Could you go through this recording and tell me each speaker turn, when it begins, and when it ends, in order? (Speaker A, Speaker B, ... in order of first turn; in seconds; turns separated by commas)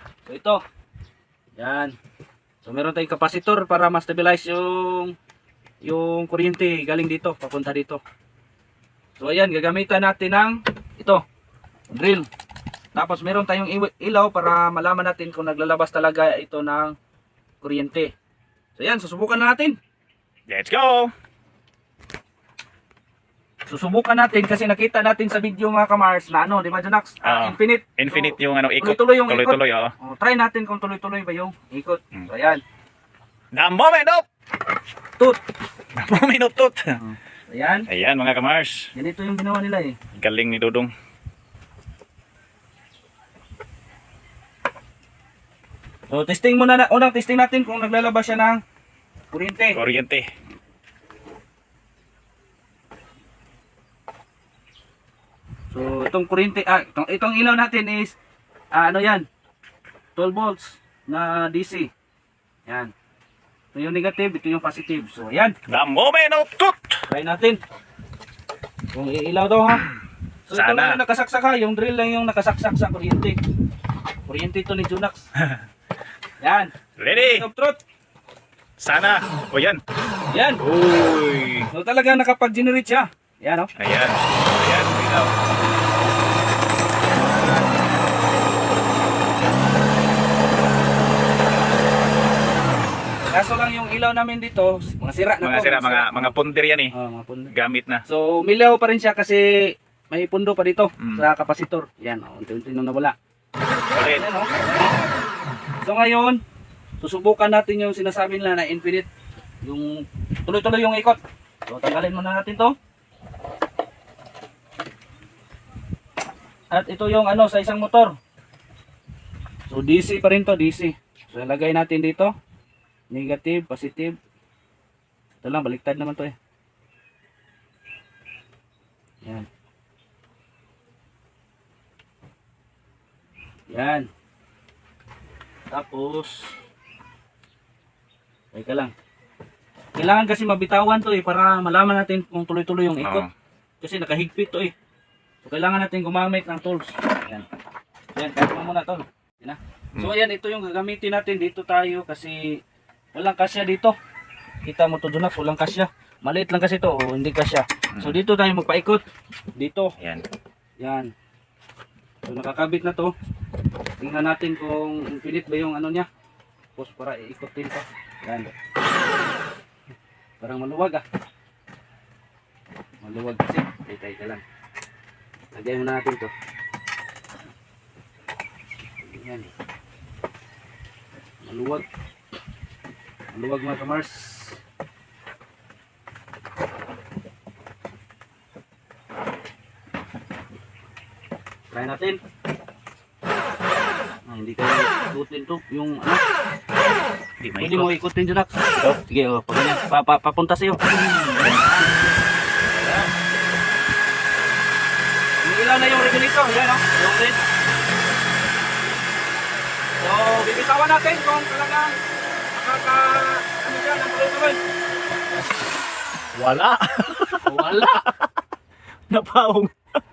Speaker A: 0.3-0.6, Speaker A: 1.6-1.9, Speaker A: 2.6-5.2, Speaker A: 5.8-8.0, Speaker A: 9.2-11.2, Speaker A: 11.9-12.3, Speaker A: 12.9-16.9, Speaker A: 17.6-18.1, Speaker A: 18.8-19.8, Speaker B: 20.5-21.1, Speaker A: 23.7-32.6, Speaker B: 27.2-29.9, Speaker B: 33.5-34.2, Speaker B: 36.0-37.0, Speaker A: 37.0-37.9, Speaker B: 37.9-38.9, Speaker A: 38.9-40.0, Speaker B: 40.2-40.9, Speaker A: 46.1-48.6, Speaker A: 49.3-49.8, Speaker B: 49.7-50.2, Speaker A: 55.7-58.1, Speaker A: 58.7-59.2, Speaker A: 60.1-61.9, Speaker A: 62.7-62.9, Speaker A: 63.7-65.5, Speaker B: 65.7-66.9, Speaker A: 67.1-67.6, Speaker A: 68.9-69.9, Speaker A: 70.5-73.4, Speaker B: 70.5-71.0, Speaker A: 74.3-75.2, Speaker A: 76.4-77.8, Speaker B: 77.0-77.4, Speaker B: 78.8-79.8, Speaker A: 80.3-80.6, Speaker B: 80.6-81.7, Speaker A: 81.7-83.7, Speaker B: 83.8-85.3, Speaker A: 93.3-96.3, Speaker B: 95.4-96.9, Speaker A: 96.9-97.5, Speaker B: 97.5-98.0, Speaker A: 98.1-103.1, Speaker B: 101.0-101.2, Speaker B: 103.9-104.2, Speaker A: 104.1-104.9, Speaker A: 105.8-106.4, Speaker A: 107.0-109.1, Speaker A: 109.6-112.7, Speaker A: 116.7-118.2, Speaker A: 119.7-122.3, Speaker A: 123.1-124.2, Speaker A: 125.4-126.3, Speaker A: 133.7-134.1, Speaker A: 135.7-136.5, Speaker A: 138.5-138.9, Speaker A: 139.9-143.2, Speaker B: 143.0-143.3, Speaker A: 143.8-144.7, Speaker A: 145.4-147.4, Speaker A: 148.1-152.6, Speaker A: 153.1-153.9, Speaker A: 154.6-159.0, Speaker A: 159.6-159.9, Speaker B: 160.0-160.2, Speaker A: 160.8-161.1, Speaker A: 162.2-163.1, Speaker A: 164.0-166.1, Speaker A: 166.8-168.5, Speaker A: 170.4-171.0, Speaker A: 173.0-174.4, Speaker A: 175.5-176.3, Speaker A: 179.0-179.5, Speaker A: 181.4-181.8, Speaker A: 183.3-184.6, Speaker A: 191.7-192.2, Speaker A: 194.3-196.2, Speaker B: 197.4-197.9, Speaker A: 197.6-201.9, Speaker B: 201.3-201.7, Speaker A: 205.4-207.4, Speaker A: 210.0-211.9, Speaker A: 212.5-214.6, Speaker B: 216.3-218.1, Speaker A: 217.4-218.1, Speaker B: 219.1-219.7